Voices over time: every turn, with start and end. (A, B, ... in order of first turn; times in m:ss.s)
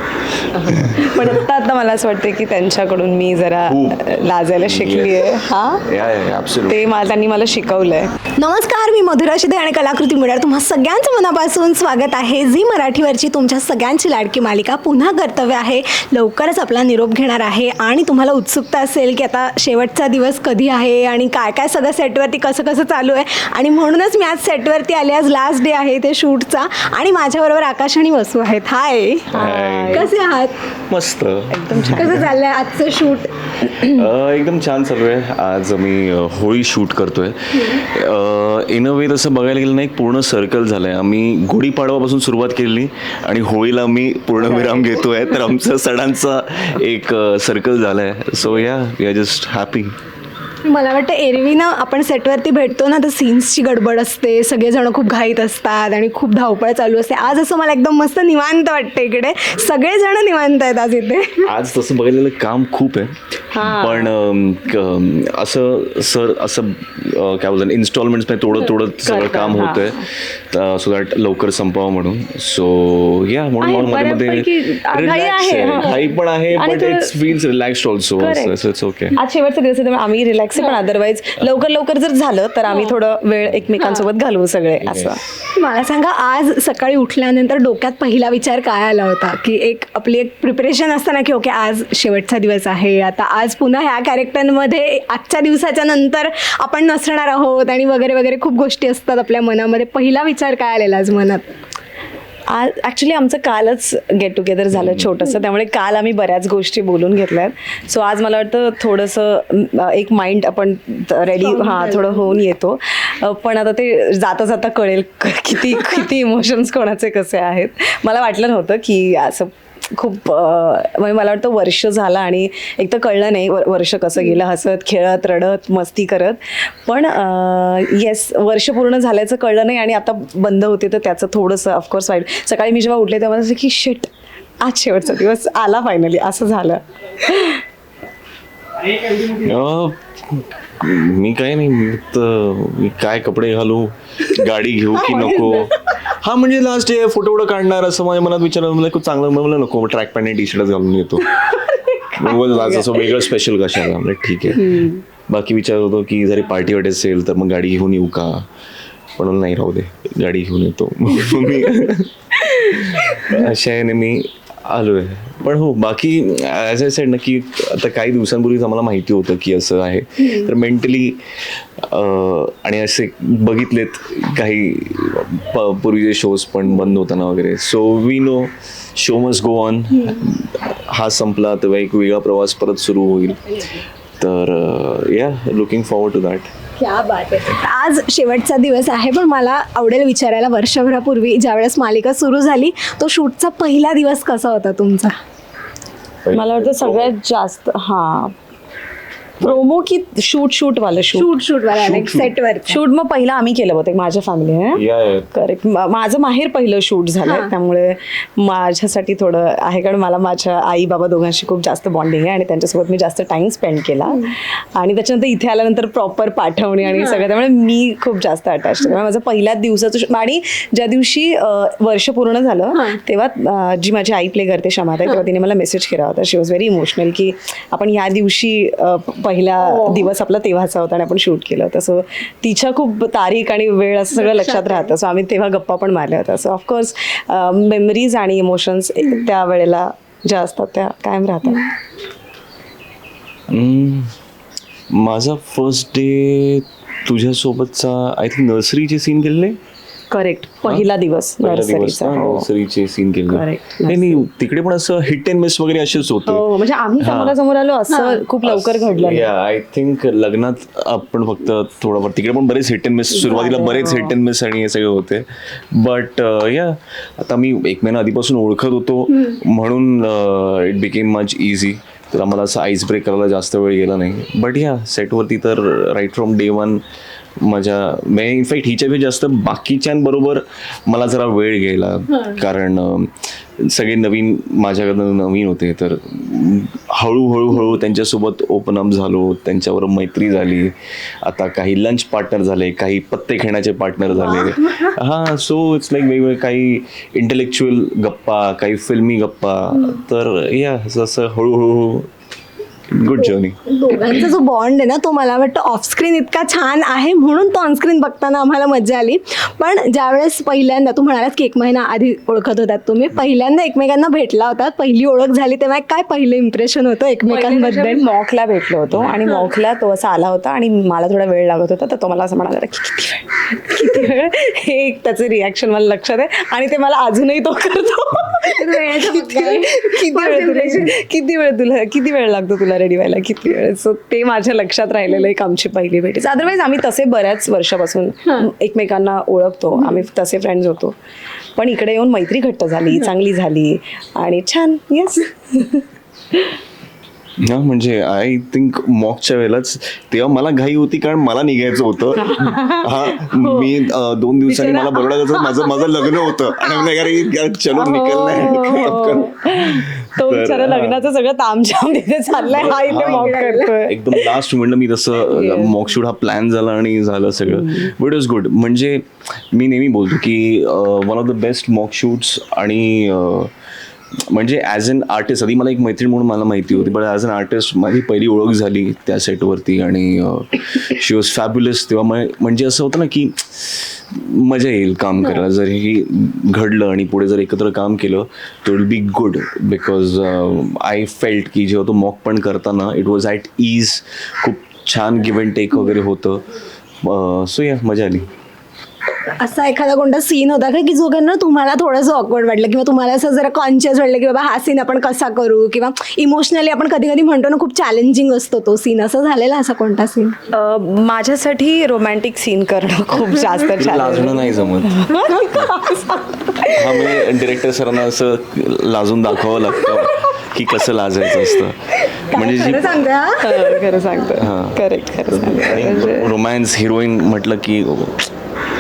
0:00.5-0:01.3 A
0:00.7-0:05.8 B
0:03.7-0:04.1 A
0:04.6-0:06.8 A
0:06.7-0:08.1 B
0:08.4-0:29.3 C
0:29.3-0:30.1 A
0:29.3-0:30.1 B
0:29.9-0:30.6 C
0:30.9-0:32.2 A
0:31.5-0:32.2 B
0:31.9-0:34.1 C
0:33.7-0:49.9 A
0:50.6-1:01.5 C
1:01.4-1:19.2 A
1:03.5-1:04.1 B
1:09.0-1:10.0 B
1:13.6-1:17.1 B
1:18.2-1:18.6 B
1:19.1-1:25.2 B
1:24.8-1:25.2 A
1:25.6-1:41.5 C
1:42.5-2:17.6 B
1:44.8-1:45.1 A
1:51.4-1:52.4 C
2:19.1-2:31.4 A
2:25.0-2:25.7 C
2:32.2-2:38.5 A
2:39.2-3:06.5 A
3:06.8-3:15.2 C
3:16.2-3:17.1 A
3:16.3-3:18.3 B
3:19.4-3:21.3 B
3:21.1-3:22.8 C
3:21.8-3:22.3 A
3:22.7-4:01.7 B
3:24.7-3:25.4 A
3:27.2-3:27.5 C
3:34.1-3:34.3 C
3:36.8-3:37.2 C
3:42.7-3:43.0 C
3:49.6-3:50.1 C
3:54.2-3:54.9 C
4:03.5-4:04.2 A
4:04.9-4:09.6 A
4:10.1-4:12.5 B
4:11.4-4:16.5 A
4:13.3-4:14.2 B
4:16.2-4:19.3 B
4:17.0-4:17.4 A
4:17.9-4:18.2 C
4:18.4-4:36.8 A
4:23.1-4:24.2 B
4:37.4-5:02.1 A
4:54.2-4:54.9 C
5:02.9-5:04.1 A
5:03.2-5:18.0 C
5:17.3-5:41.0 B
5:28.6-5:30.9 C
5:41.6-5:45.8 B
5:47.4-6:01.0 A
5:52.3-5:53.7 B
5:54.5-5:55.5 B
5:57.7-6:04.2 B
6:02.5-6:13.5 A
6:02.9-6:03.8 C
6:05.3-6:05.8 B
6:07.5-6:07.9 B
6:14.3-6:36.4 A
6:37.0-6:38.3 A
6:39.4-6:50.4 C
6:50.5-6:57.1 B
6:53.8-6:55.8 A
6:56.7-7:03.0 A
7:02.0-7:03.8 C
7:03.4-7:06.3 B
7:04.4-7:08.3 A